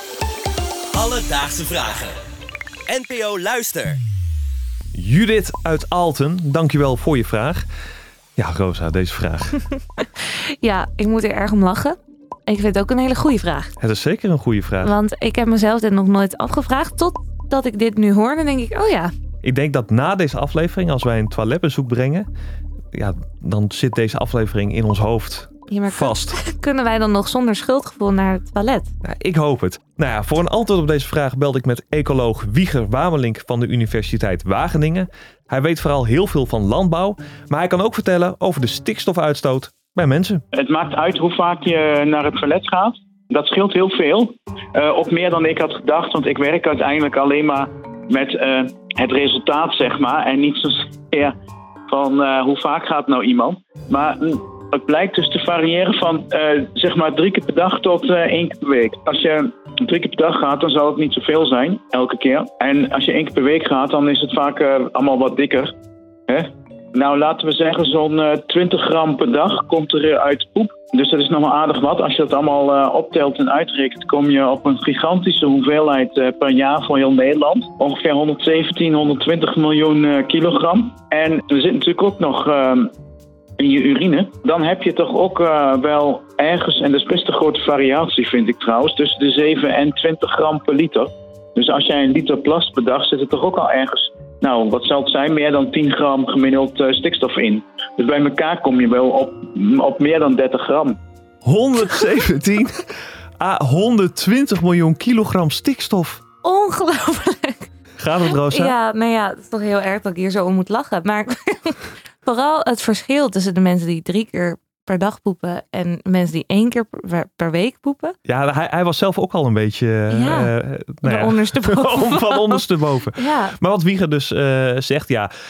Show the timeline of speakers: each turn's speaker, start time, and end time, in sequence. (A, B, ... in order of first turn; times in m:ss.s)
0:00.9-0:02.1 A
0:02.9-0:04.0 A
0:04.9-0:07.6 B
0:08.4-0:09.6 B
0:10.0-0:13.7 C
0:13.8-0:14.9 B
0:14.8-0:19.1 C
0:19.4-0:22.3 B
0:22.9-0:26.4 B
0:25.7-0:28.9 C
0:29.0-0:40.4 B
0:40.5-0:51.3 D
0:51.9-1:05.7 D
1:06.3-1:22.9 D
1:23.6-1:41.0 D
1:41.4-1:42.8 B
1:43.4-1:46.2 B
1:46.4-1:47.7 C
1:48.0-1:48.7 B
1:48.2-1:58.2 C
1:58.2-2:05.3 B
2:00.1-2:00.5 C
2:01.0-2:03.6 C